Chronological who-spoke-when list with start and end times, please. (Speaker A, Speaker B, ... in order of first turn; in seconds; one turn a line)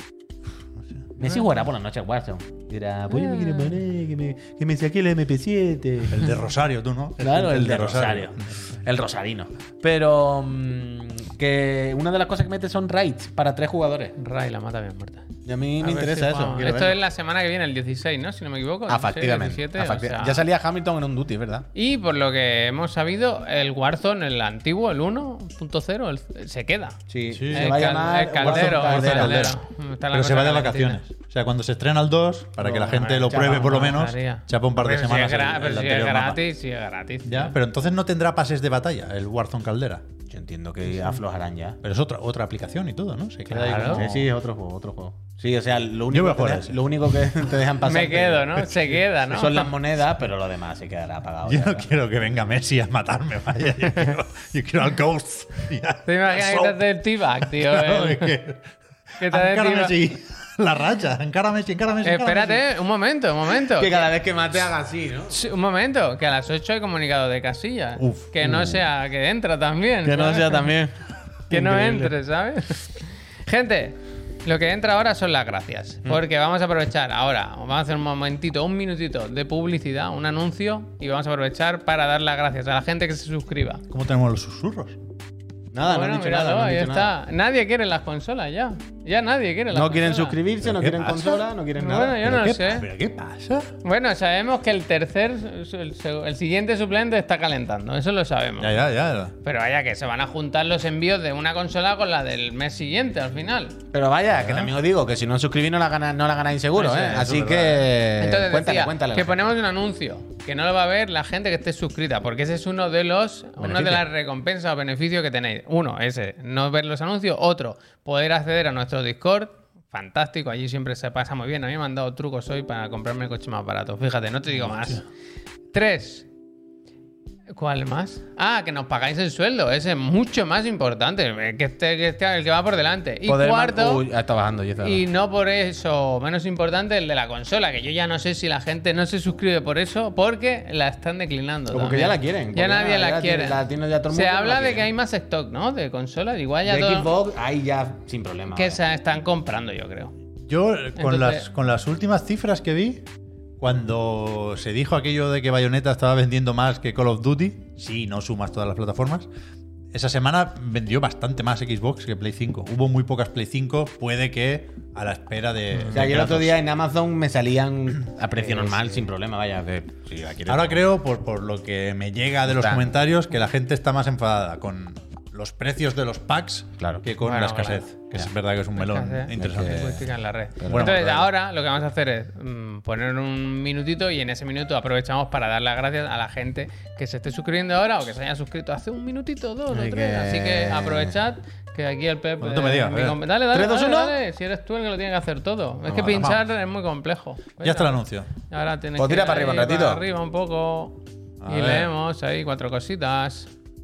Speaker A: 1.2-6.3
Speaker B: 3.1-3.8
Speaker C: 6.1-8.5
Speaker A: 7.2-14.2
Speaker B: 14.2-15.3
Speaker A: 15.5-17.0
Speaker B: 15.8-20.4
Speaker A: 18.9-21.7
Speaker B: 21.8-27.0
Speaker A: 27.1-29.5
Speaker C: 27.3-27.8
Speaker B: 27.5-31.0
Speaker C: 28.4-29.6
Speaker C: 30.1-36.4
Speaker A: 32.6-34.0
Speaker B: 33.0-37.5
Speaker C: 37.2-40.1
Speaker A: 40.3-41.8
Speaker C: 41.8-44.3
Speaker B: 43.5-44.0
Speaker A: 43.5-48.7
Speaker C: 46.1-46.8
Speaker B: 47.8-49.7
Speaker A: 49.3-51.9
Speaker C: 51.5-56.8
Speaker B: 56.1-58.4
Speaker C: 57.4-58.6
Speaker C: 59.2-62.6
Speaker B: 59.2-60.0
Speaker B: 62.0-64.1
Speaker A: 63.8-65.4
Speaker B: 65.3-70.7
Speaker C: 68.0-68.8
Speaker A: 70.0-70.9
Speaker A: 71.5-72.1
Speaker B: 71.5-83.8
Speaker C: 83.9-85.0
Speaker A: 85.7-87.1
Speaker B: 85.8-90.4
Speaker A: 89.7-92.2
Speaker C: 90.6-91.5
Speaker B: 91.8-92.9
Speaker C: 92.2-93.7
Speaker B: 93.8-98.8
Speaker C: 98.6-99.3
Speaker B: 99.4-103.8
Speaker A: 103.9-109.5
Speaker C: 104.4-104.7
Speaker B: 106.8-107.3
Speaker C: 107.0-107.9
Speaker B: 108.2-125.0
Speaker A: 113.6-114.0
Speaker B: 125.7-126.3
Speaker B: 127.5-134.0
Speaker A: 133.3-135.0
Speaker B: 134.8-147.1
Speaker A: 141.7-144.9
Speaker A: 146.7-148.8
Speaker B: 148.5-150.1
Speaker C: 150.4-153.1
Speaker B: 151.0-151.4
Speaker C: 153.6-159.3
Speaker C: 159.9-166.6
Speaker A: 165.9-170.9
Speaker B: 168.4-168.8
Speaker C: 170.5-180.0
Speaker A: 172.5-172.9
Speaker A: 176.8-177.1
Speaker B: 177.2-177.8
Speaker B: 178.8-198.0
Speaker A: 179.3-180.0
Speaker A: 180.6-180.9
Speaker C: 180.7-181.3
Speaker A: 189.7-191.2
Speaker C: 192.4-193.2
Speaker A: 193.5-194.2
Speaker C: 195.9-196.4
Speaker C: 197.6-198.3
Speaker B: 198.5-203.5
Speaker A: 199.0-200.0
Speaker C: 201.4-201.9